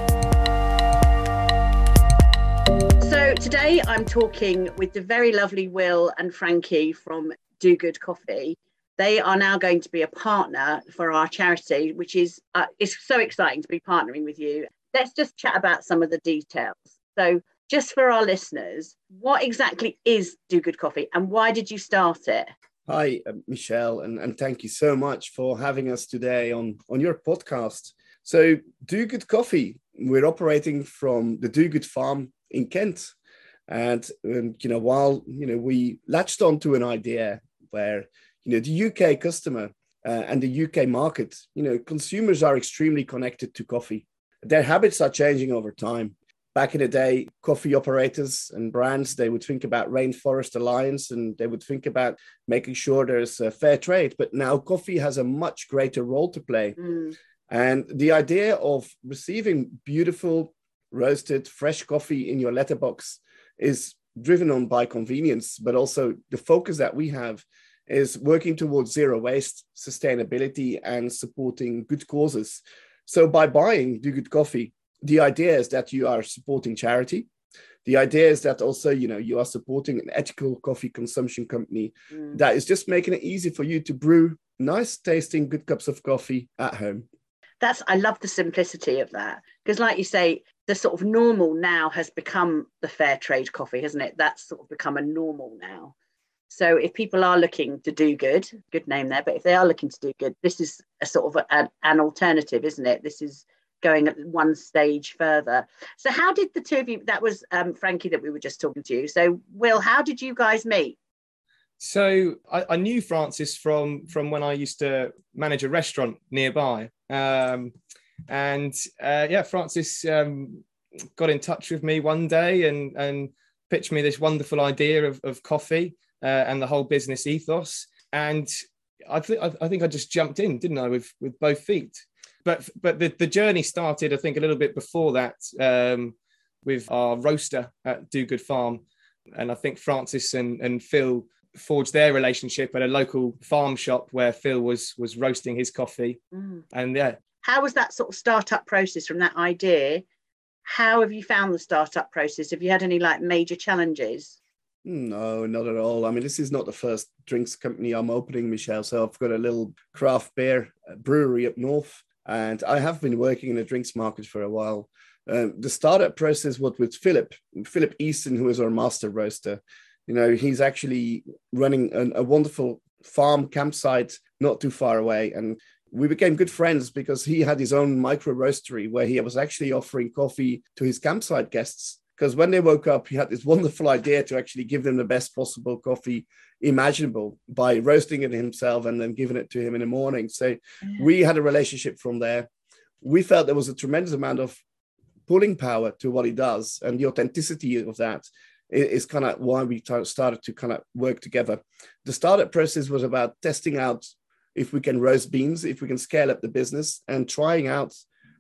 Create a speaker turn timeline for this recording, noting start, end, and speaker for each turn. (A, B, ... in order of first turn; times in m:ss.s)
0:03.0-0:22.5 A
0:22.9-0:33.1 B
0:33.7-0:56.8 B
0:56.8-0:57.1 A
0:57.5-1:17.3 B
1:17.8-1:27.0 B
1:27.6-1:35.9 A
1:36.5-1:51.0 A
1:51.8-1:57.8 C
1:58.3-2:00.6 C
2:01.2-2:08.5 C
2:09.1-2:18.8 C
2:19.3-2:26.2 C
2:26.3-2:26.6 A
2:26.7-2:27.2 C
2:27.4-2:30.0 A
2:30.6-2:34.4 A
2:34.8-3:12.5 B
3:13.0-3:14.6 B
3:15.3-3:28.0 B